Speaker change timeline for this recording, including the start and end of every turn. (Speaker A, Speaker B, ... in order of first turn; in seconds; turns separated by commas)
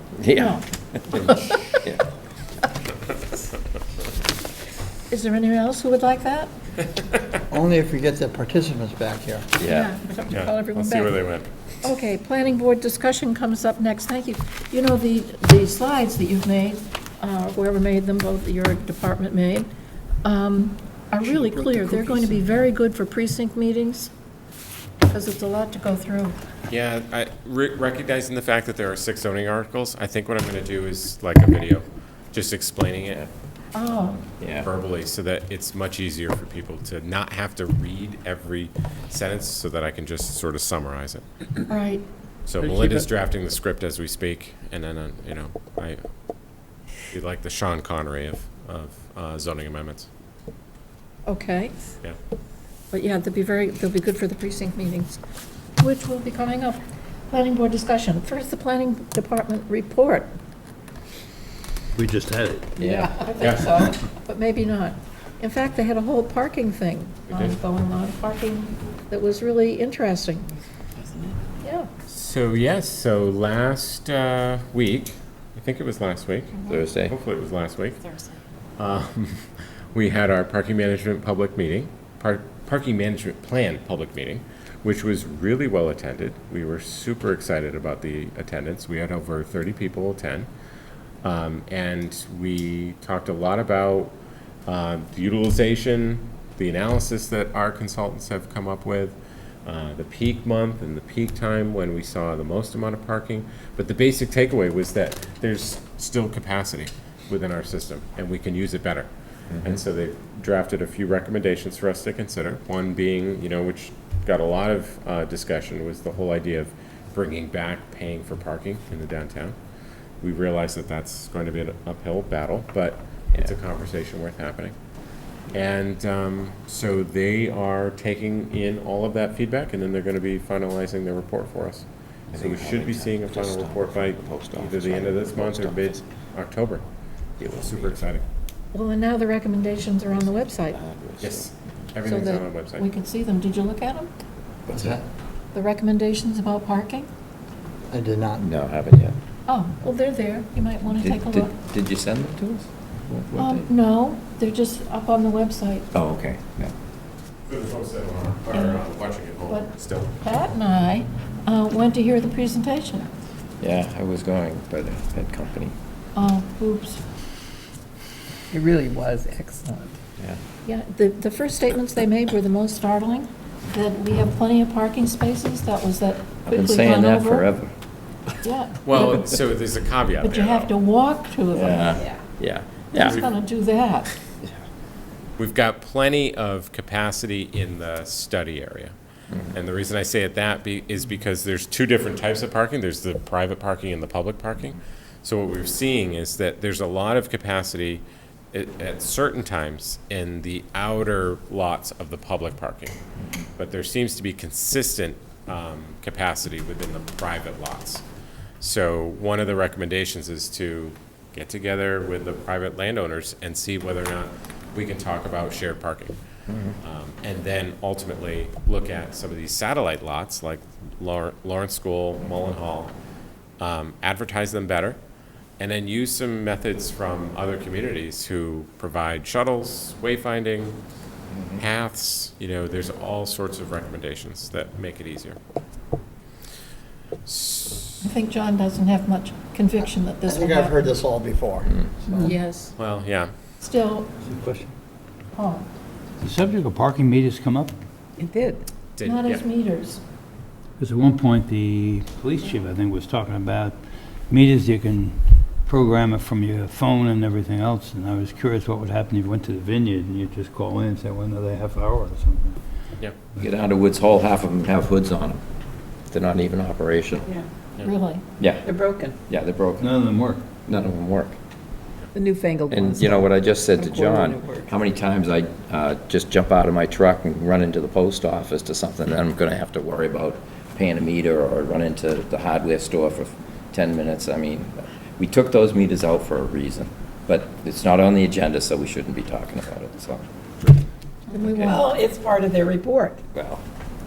Speaker A: 0.2-2.0, Speaker B: 0.3-0.6, Speaker B: 1.2-1.6, Speaker B: 5.1-6.5, Speaker C: 7.5-9.5, Speaker A: 9.6-9.9, Speaker B: 9.6-11.2, Speaker D: 10.3-11.5, Speaker B: 11.8-19.7, Speaker B: 20.2-24.1, Speaker E: 21.5-22.4, Speaker B: 25.1-26.4, Speaker D: 26.7-33.3, Speaker B: 33.7-34.2, Speaker D: 34.0-41.2, Speaker A: 34.4-34.7, Speaker B: 41.7-42.0, Speaker D: 42.5-46.0, Speaker D: 47.1-50.1, Speaker B: 51.2-51.7, Speaker B: 52.9-55.2, Speaker B: 55.8-60.3, Speaker F: 62.0-62.8, Speaker A: 62.8-63.2, Speaker E: 62.8-63.1, Speaker B: 63.1-70.5, Speaker D: 63.4-63.8, Speaker D: 67.3-67.6, Speaker B: 71.6-71.9, Speaker D: 72.1-76.5, Speaker A: 76.7-77.1, Speaker D: 77.1-78.0, Speaker D: 78.8-90.5, Speaker D: 91.2-94.1, Speaker D: 94.7-109.1, Speaker D: 109.6-119.5, Speaker D: 120.2-124.7, Speaker D: 125.5-136.8, Speaker A: 132.3-136.0, Speaker A: 137.4-138.0, Speaker D: 137.4-138.2, Speaker B: 138.7-140.8, Speaker A: 140.2-141.5, Speaker D: 141.2-142.8, Speaker B: 142.0-144.1, Speaker A: 144.7-145.0, Speaker C: 144.7-145.0, Speaker B: 145.5-147.1, Speaker C: 147.9-148.4, Speaker A: 148.4-149.1, Speaker B: 149.5-151.5, Speaker A: 151.0-153.7, Speaker B: 153.3-155.9, Speaker A: 155.9-156.7, Speaker D: 157.4-160.1, Speaker B: 158.5-158.8, Speaker B: 159.5-163.1, Speaker A: 163.6-165.7, Speaker B: 166.1-167.0, Speaker E: 168.5-169.9, Speaker B: 170.6-177.4, Speaker A: 176.4-177.7, Speaker B: 178.4-179.3, Speaker D: 178.8-180.7, Speaker B: 180.2-182.0, Speaker A: 181.5-183.2, Speaker B: 182.9-184.1, Speaker D: 183.0-183.3, Speaker D: 185.4-188.9, Speaker D: 189.5-203.0, Speaker D: 203.6-208.0, Speaker D: 208.6-216.2, Speaker A: 216.5-216.7, Speaker D: 216.8-222.9, Speaker D: 223.6-225.0, Speaker D: 225.6-230.8, Speaker A: 231.3-231.6, Speaker D: 231.6-235.4, Speaker D: 237.2-237.9, Speaker B: 238.0-241.0, Speaker C: 240.3-242.3, Speaker B: 242.2-242.7, Speaker D: 242.8-243.3, Speaker B: 243.6-244.1, Speaker F: 244.2-244.7, Speaker B: 245.3-245.7, Speaker F: 246.2-247.7, Speaker E: 248.2-248.6, Speaker D: 249.0-249.4, Speaker B: 249.0-250.0, Speaker F: 250.8-262.6, Speaker A: 263.4-265.4, Speaker A: 266.1-267.3, Speaker B: 267.8-268.2, Speaker A: 268.4-269.9, Speaker E: 268.6-269.1, Speaker F: 269.8-270.5, Speaker A: 270.7-271.4, Speaker E: 272.1-274.7, Speaker A: 272.7-290.2, Speaker E: 291.3-293.2, Speaker B: 291.4-291.7, Speaker A: 291.5-291.8, Speaker A: 293.3-293.6